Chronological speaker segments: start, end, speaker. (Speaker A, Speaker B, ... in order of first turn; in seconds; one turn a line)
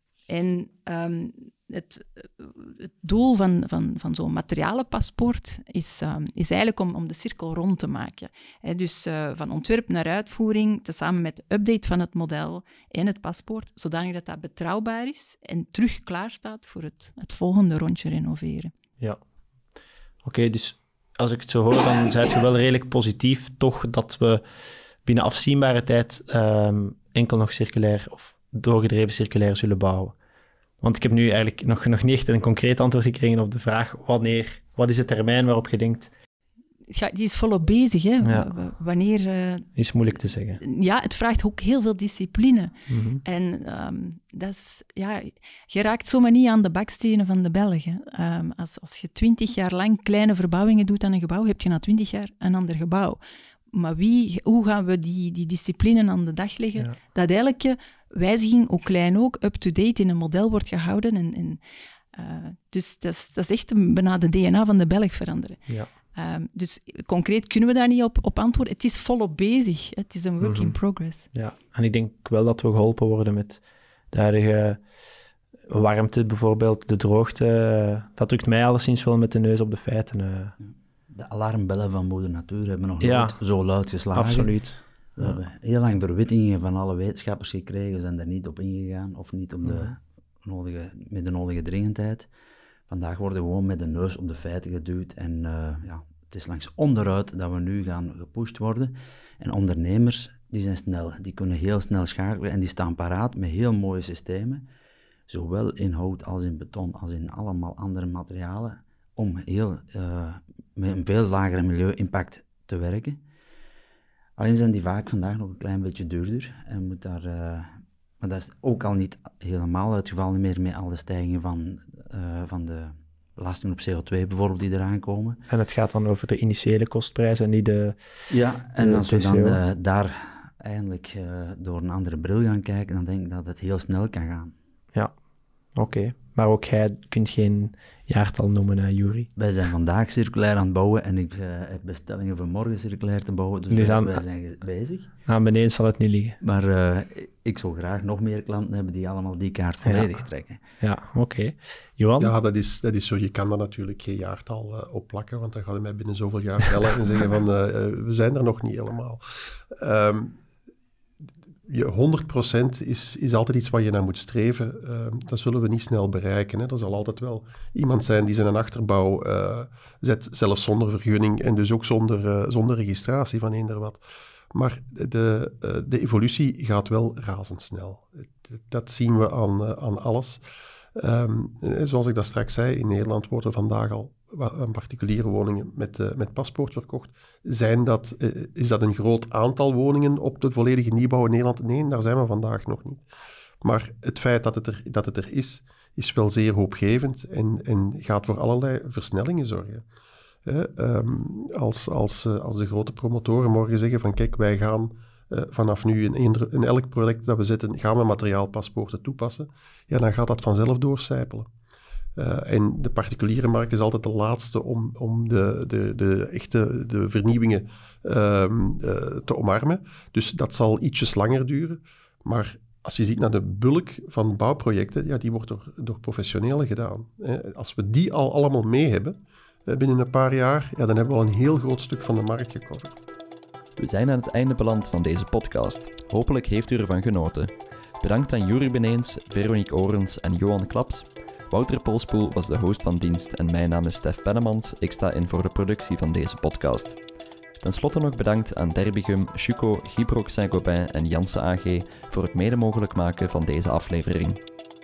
Speaker A: 0.3-18.7
Speaker B: 20.2-24.4
Speaker B: 25.0-30.2
Speaker B: 30.8-36.1
Speaker A: 36.9-39.7
Speaker B: 38.2-38.5
Speaker B: 39.8-40.6
Speaker A: 40.6-53.2
Speaker B: 42.9-43.2
Speaker A: 53.7-61.6
Speaker A: 62.1-65.6
Speaker A: 66.2-71.3
Speaker B: 70.4-70.8
Speaker B: 71.3-74.8
Speaker B: 75.7-80.5
Speaker C: 80.6-92.3
Speaker B: 83.0-83.4
Speaker B: 84.1-85.4
Speaker B: 89.7-89.9
Speaker C: 92.9-104.7
Speaker C: 105.3-113.2
Speaker C: 114.4-125.4
Speaker B: 125.5-129.6
Speaker C: 128.3-134.6
Speaker B: 135.8-139.3
Speaker C: 139.4-145.1
Speaker B: 143.7-144.2
Speaker B: 145.3-146.4
Speaker C: 146.4-150.6
Speaker B: 149.8-150.2
Speaker B: 150.8-152.3
Speaker D: 152.2-160.4
Speaker D: 161.7-174.0
Speaker D: 174.5-180.4
Speaker D: 181.0-193.0
Speaker D: 193.6-199.8
Speaker D: 200.5-211.5
Speaker D: 212.2-232.9
Speaker E: 233.8-247.0
Speaker E: 247.6-254.4